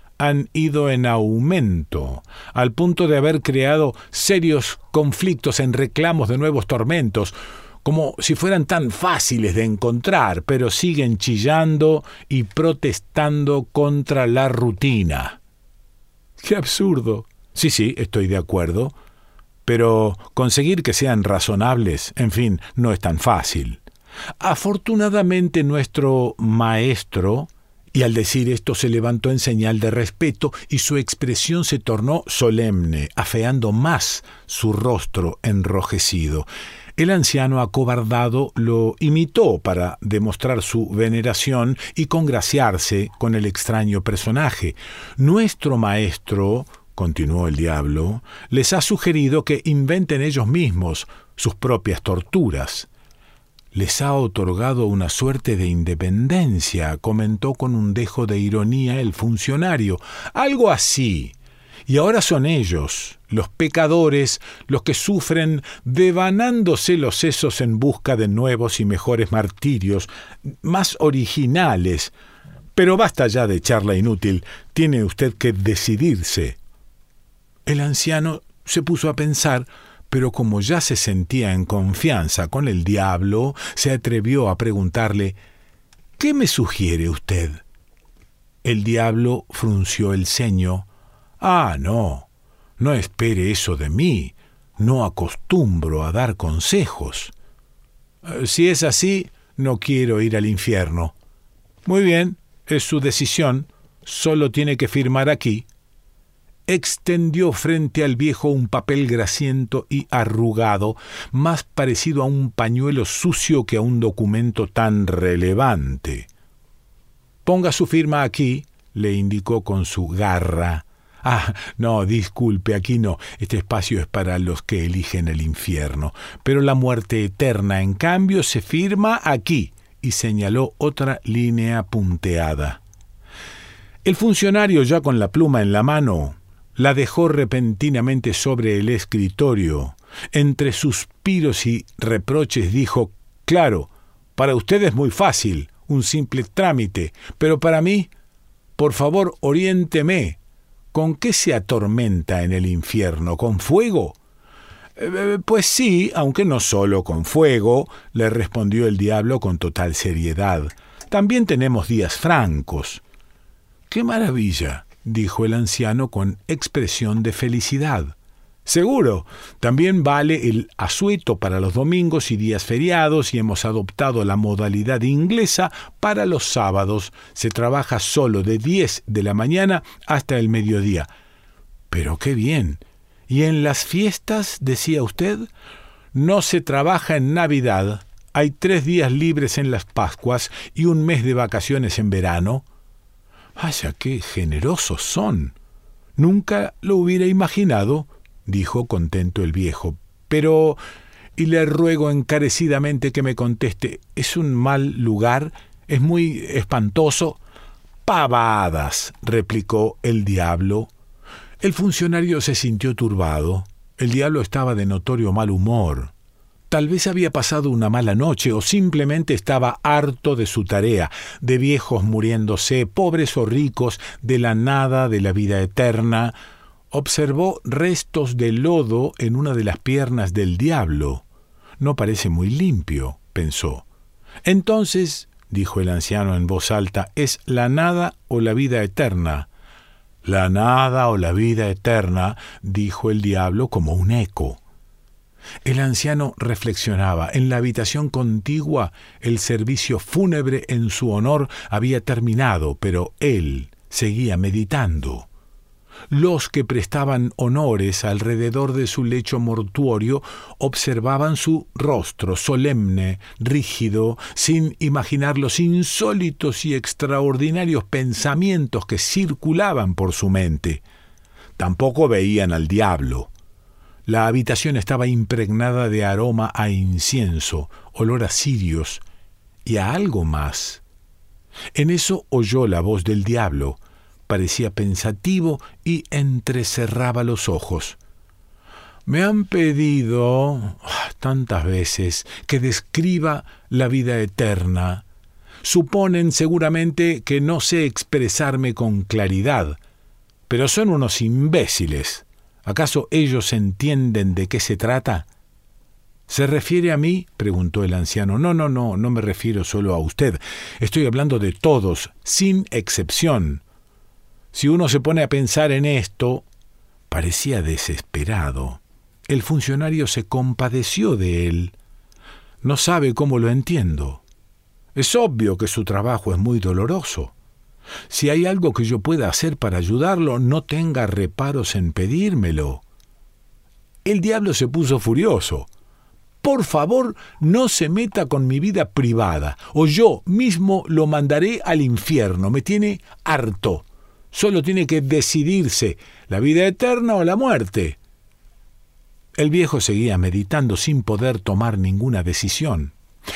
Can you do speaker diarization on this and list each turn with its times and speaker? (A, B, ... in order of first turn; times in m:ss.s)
0:00.2-0:15.4 A
0:16.4-0:18.9 A
0:19.6-0:23.8 A
0:24.4-0:52.9 A
0:53.7-1:01.3 A
1:01.9-1:12.1 A
1:12.7-1:16.6 A
1:17.6-1:25.4 A
1:26.2-1:27.6 A
1:28.6-1:30.9 A
1:31.4-1:37.3 A
1:38.2-1:41.2 A
1:41.8-1:45.6 A
1:46.7-1:56.3 A
1:57.4-2:12.8 A
2:14.0-2:28.1 A
2:28.8-2:30.4 A
2:30.9-2:34.2 A
2:35.0-2:43.0 A
2:43.9-3:01.1 A
3:01.9-3:05.5 A
3:06.1-3:12.6 A
3:13.6-3:15.6 A
3:16.2-3:20.8 A
3:21.4-3:27.4 A
3:28.0-3:30.9 A
3:31.6-3:36.1 A
3:36.7-3:46.3 A
3:46.9-3:51.2 A
3:51.8-3:53.8 A
3:54.4-3:59.5 A
4:00.2-4:04.6 A
4:05.6-4:15.3 A
4:16.1-4:30.8 A
4:31.6-4:33.3 A
4:34.0-4:39.0 A
4:39.6-4:40.8 A
4:41.7-4:48.0 A
4:49.0-4:55.0 A
4:55.6-4:59.8 A
5:00.5-5:05.2 A
5:06.3-5:13.6 A
5:14.5-5:16.4 A
5:17.1-5:21.7 A
5:22.6-5:24.2 A
5:24.9-5:27.3 A
5:28.1-5:32.8 A
5:34.0-5:35.7 A
5:36.4-5:48.0 A
5:49.4-5:52.9 A